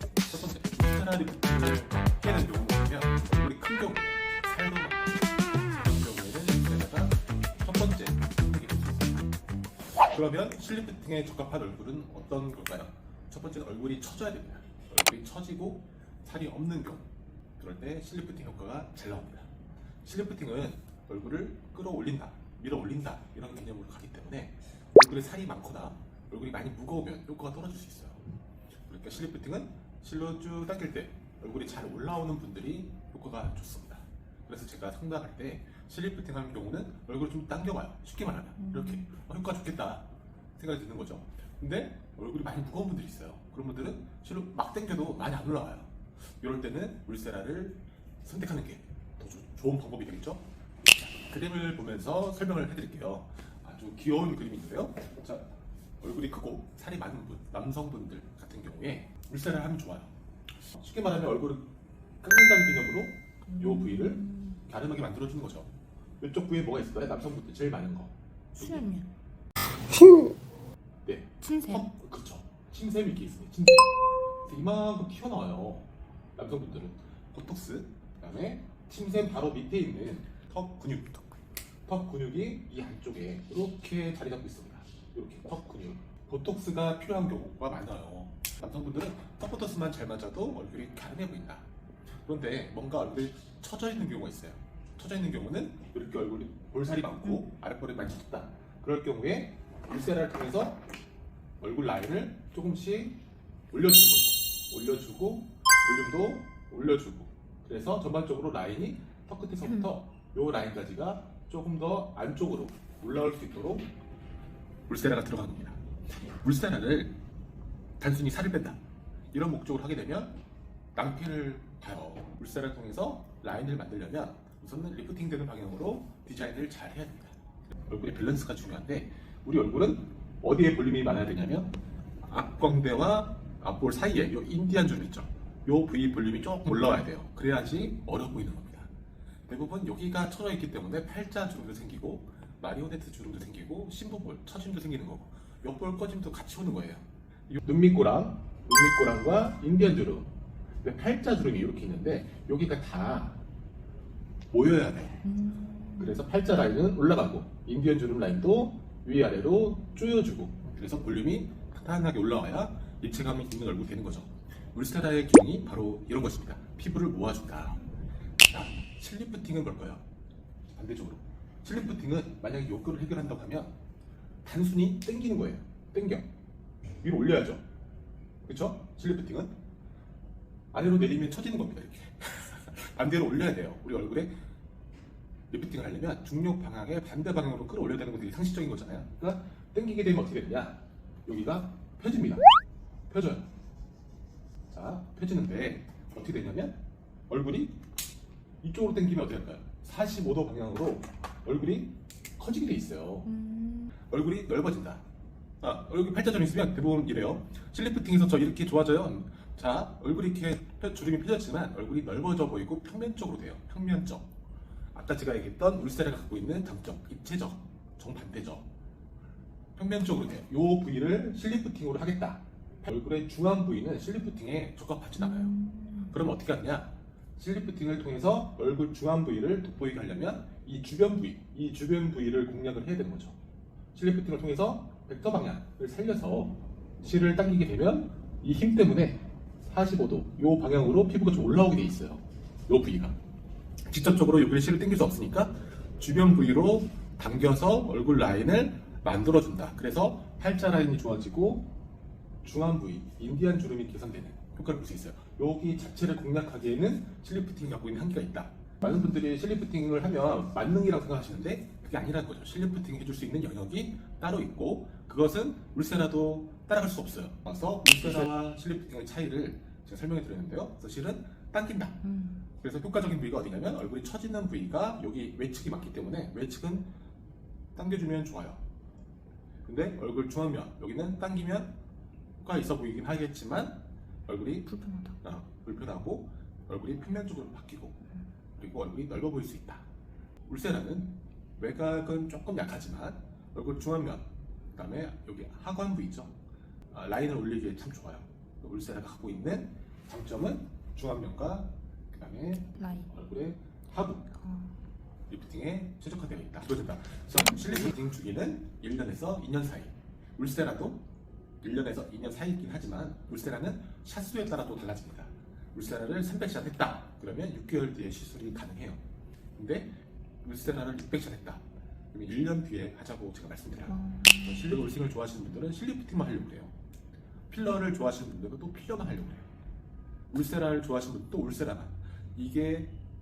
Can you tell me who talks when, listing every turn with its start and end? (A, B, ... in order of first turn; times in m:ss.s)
0:00.3-0:09.2 A
0:10.1-0:19.5 A
0:20.0-0:28.3 A
0:28.9-1:00.1 A
0:38.6-0:39.1 B
1:00.7-1:01.7 A
1:02.2-1:05.7 A
1:03.5-1:04.6 B
1:06.2-1:08.1 A
1:08.6-1:09.1 B
1:11.0-1:13.9 A
1:11.4-1:11.9 B
1:14.4-1:21.3 A
1:21.9-1:31.7 A
1:32.2-1:40.8 A
1:41.6-1:43.2 A
1:43.7-1:53.9 A
1:54.9-1:55.8 A
1:56.4-1:57.2 A
1:58.0-1:58.8 A
1:59.3-2:00.4 A
2:01.0-2:18.9 A
2:19.5-2:33.4 A
2:34.5-2:35.2 A
2:35.2-2:36.2 B
2:36.0-2:47.8 A
2:48.5-2:50.0 A
2:50.7-2:53.8 A
2:54.4-2:56.3 A
2:57.0-2:57.6 A
2:58.4-2:59.6 A
3:00.7-3:04.4 A
3:05.5-3:12.5 A
3:13.1-3:13.5 A
3:14.7-3:17.8 A
3:18.6-3:23.3 A
3:23.3-3:24.0 B
3:24.0-3:25.0 A
3:25.6-3:34.3 A
3:34.9-3:38.7 A
3:39.8-3:45.5 A
3:45.2-3:46.2 B
3:46.1-3:53.4 A
3:53.9-4:03.2 A
4:03.9-4:11.7 A
4:12.4-4:36.9 A
4:18.8-4:19.1 B
4:32.0-4:32.4 B
4:37.8-4:38.6 A
4:39.7-4:41.8 A
4:42.4-4:48.0 A
4:44.7-4:45.2 B
4:48.6-4:49.8 A
4:50.4-4:56.3 A
4:56.9-5:04.3 A
5:02.8-5:03.1 B
5:04.4-5:04.7 B
5:05.3-5:11.0 A
5:11.6-5:19.0 A
5:19.6-5:26.7 A
5:23.9-5:24.8 B
5:27.5-5:29.5 A
5:30.3-5:32.9 A